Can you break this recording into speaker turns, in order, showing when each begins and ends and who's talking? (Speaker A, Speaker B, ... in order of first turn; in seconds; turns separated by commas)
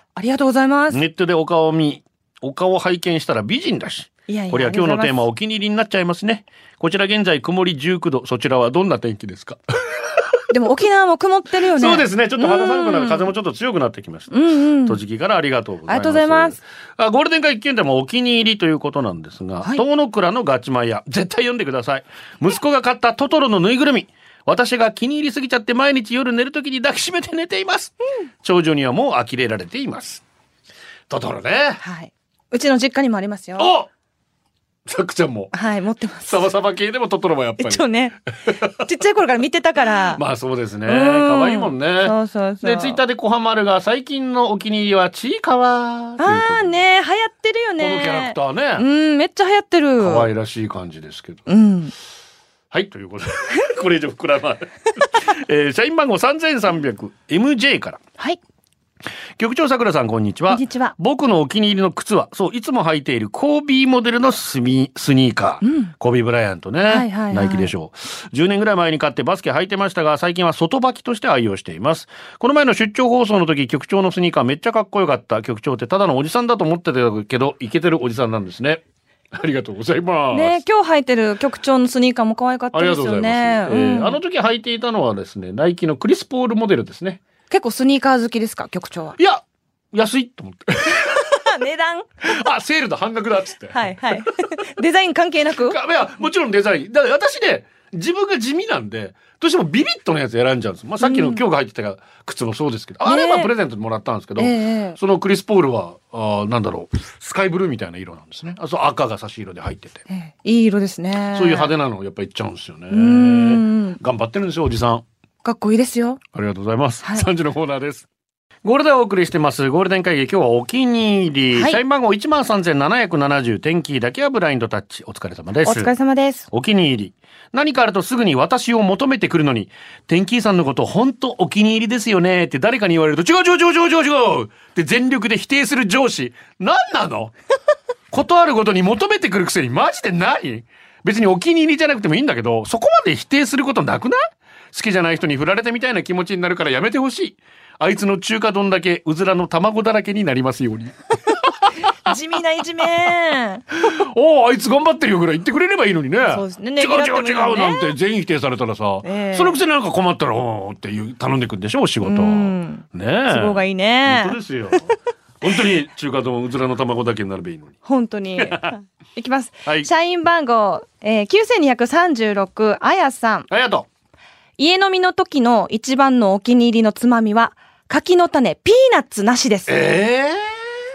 Speaker A: 0.1-1.0, Speaker B: 0.9-10.4, Speaker A: 4.3-5.2, Speaker A: 10.5-13.3, Speaker B: 11.8-30.2, Speaker A: 14.3-15.0, Speaker A: 15.9-16.6, Speaker B: 31.1-31.8, Speaker A: 31.8-33.7, Speaker B: 33.6-33.9, Speaker B: 34.9-35.5, Speaker A: 35.5-36.5, Speaker B: 36.2-37.9, Speaker A: 37.6-38.1, Speaker A: 38.8-40.2, Speaker B: 40.1-46.8, Speaker A: 40.9-43.0, Speaker A: 46.2-50.3, Speaker B: 47.8-48.9, Speaker B: 50.0-51.5, Speaker A: 51.5-51.9, Speaker B: 52.7-58.0, Speaker B: 59.4-80.6, Speaker A: 60.5-60.9, Speaker A: 65.6-65.9, Speaker A: 66.9-67.7, Speaker A: 80.3-84.2, Speaker B: 82.7-87.2, Speaker A: 87.5-89.2, Speaker B: 89.2-91.4, Speaker A: 91.2-92.1, Speaker B: 92.2-94.3, Speaker A: 93.7-95.8, Speaker B: 95.6-110.0, Speaker A: 101.0-101.4, Speaker A: 103.0-103.5, Speaker A: 104.4-105.0, Speaker A: 110.1-111.7, Speaker B: 111.3-115.0, Speaker A: 112.9-114.0, Speaker A: 115.4-116.2, Speaker B: 116.3-118.1, Speaker B: 118.6-125.9, Speaker A: 121.5-121.8, Speaker A: 125.6-126.5, Speaker B: 126.5-137.3, Speaker B: 138.1-151.7, Speaker A: 152.0-153.6, Speaker B: 153.8-167.8, Speaker A: 156.2-158.0, Speaker A: 159.0-159.6, Speaker A: 162.0-164.9, Speaker A: 167.8-173.5, Speaker B: 168.4-168.7, Speaker B: 173.5-173.9, Speaker A: 174.6-179.8, Speaker B: 179.7-180.6